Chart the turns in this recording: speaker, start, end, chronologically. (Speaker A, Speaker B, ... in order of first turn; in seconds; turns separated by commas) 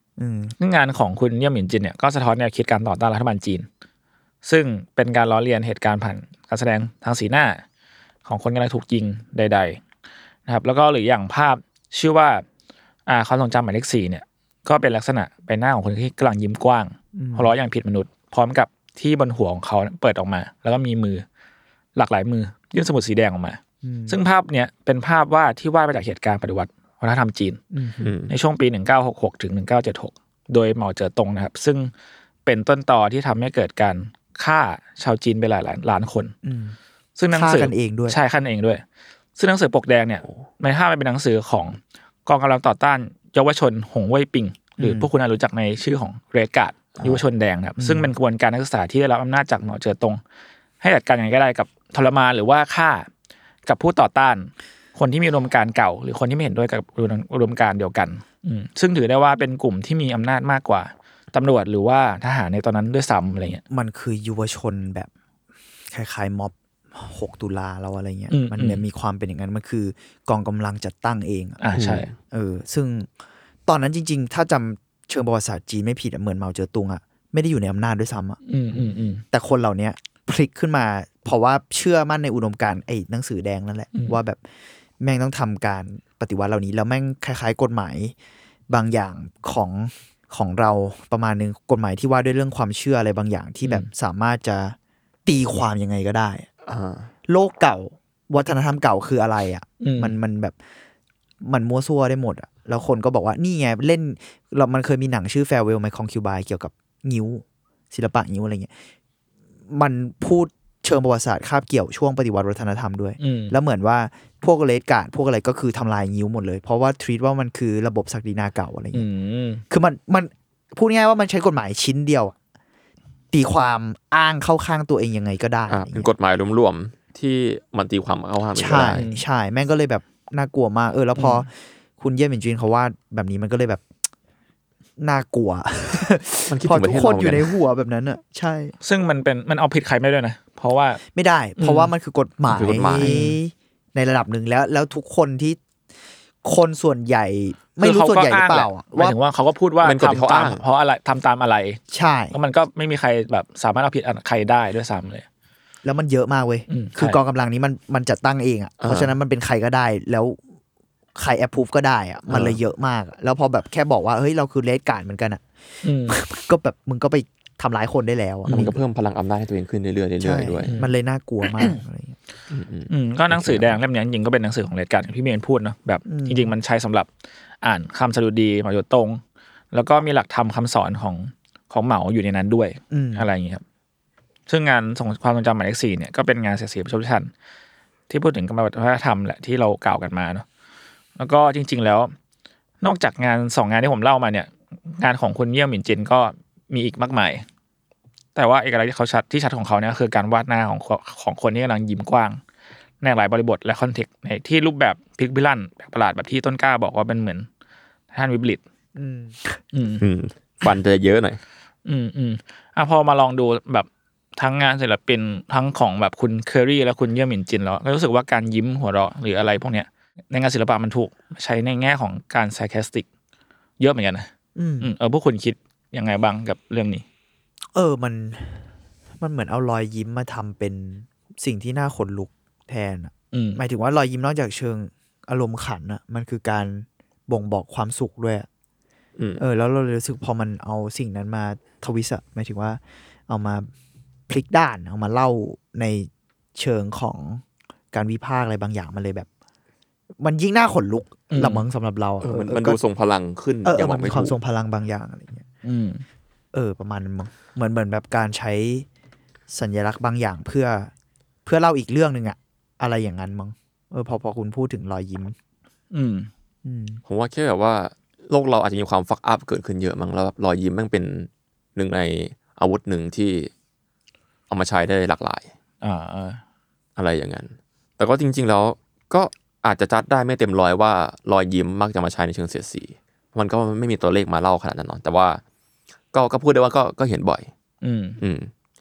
Speaker A: 0.2-0.5, Speaker B: 0.6-3.6, Speaker B: 4.4-7.6, Speaker B: 8.2-9.8, Speaker B: 10.5-12.4, Speaker B: 13.1-21.2, Speaker A: 17.1-17.5, Speaker B: 21.9-27.6, Speaker A: 23.8-24.2, Speaker A: 27.7-28.1, Speaker C: 28.0-28.3, Speaker B: 28.3-31.9, Speaker B: 32.5-36.3, Speaker A: 36.4-36.8, Speaker B: 37.2-38.8, Speaker A: 37.3-38.2, Speaker B: 39.4-50.2, Speaker A: 44.8-45.1, Speaker A: 47.8-48.1, Speaker B: 50.8-53.1, Speaker B: 53.6-63.6, Speaker A: 63.7-65.1, Speaker A: 65.9-71.6, Speaker B: 68.3-68.8, Speaker B: 71.6-72.1, Speaker C: 71.7-72.1, Speaker A: 72.2-73.1, Speaker A: 73.7-78.4, Speaker B: 78.5-79.2, Speaker A: 79.3-84.4, Speaker A: 85.0-88.1, Speaker A: 88.7-96.5, Speaker C: 96.7-97.1, Speaker A: 97.3-100.5, Speaker B: 99.8-100.1, Speaker A: 101.4-108.7, Speaker A: 109.7-119.1, Speaker B: 113.2-113.5, Speaker B: 118.9-119.6, Speaker A: 119.7-122.3, Speaker A: 123.3-126.1, Speaker C: 125.7-129.1, Speaker A: 128.6-133.8, Speaker B: 128.9-129.2, Speaker A: 135.0-138.7, Speaker C: 136.5-137.5, Speaker B: 138.8-141.0, Speaker A: 141.1-145.6, Speaker B: 141.6-141.9, Speaker C: 142.5-143.2, Speaker B: 143.0-143.4, Speaker A: 146.4-149.2, Speaker B: 147.8-151.8, Speaker C: 149.8-150.6, Speaker A: 151.9-152.3, Speaker B: 152.3-155.2, Speaker A: 155.8-160.4, Speaker B: 156.7-157.2, Speaker C: 158.8-159.1, Speaker A: 161.1-165.4, Speaker C: 162.3-162.6, Speaker B: 165.8-166.2, Speaker A: 166.1-168.8, Speaker B: 168.5-168.7, Speaker C: 168.5-170.7, Speaker A: 170.2-172.2, Speaker B: 170.6-170.9, Speaker C: 172.5-173.8, Speaker B: 172.9-177.1, Speaker A: 176.1-176.5, Speaker B: 177.6-179.2, Speaker B: 179.7-183.6, Speaker A: 182.9-183.3, Speaker B: 184.5-187.3, Speaker B: 188.1-190.4, Speaker B: 191.2-192.1, Speaker B: 192.8-197.4, Speaker B: 198.3-202.4, Speaker B: 203.0-207.5, Speaker B: 208.1-208.6, Speaker A: 208.9-209.6, Speaker B: 209.7-210.0, Speaker C: 210.0-211.4, Speaker B: 211.8-223.1, Speaker B: 223.8-224.3, Speaker A: 224.6-224.9, Speaker B: 224.8-227.0, Speaker A: 227.7-228.7, Speaker A: 229.2-238.5, Speaker B: 233.3-233.6, Speaker C: 239.2-239.4, Speaker A: 239.4-243.7, Speaker A: 244.3-249.3, Speaker A: 250.2-252.8, Speaker B: 251.3-251.6, Speaker C: 252.2-254.3, Speaker A: 253.6-255.4, Speaker B: 255.6-256.0, Speaker A: 256.5-258.9, Speaker A: 259.5-260.9, Speaker A: 261.4-265.3, Speaker B: 265.9-266.3, Speaker A: 266.6-267.0, Speaker C: 267.1-273.5, Speaker C: 274.5-275.5, Speaker B: 275.8-276.4, Speaker C: 277.0-285.4, Speaker C: 286.1-287.5, Speaker B: 287.8-288.2, Speaker C: 288.2-288.5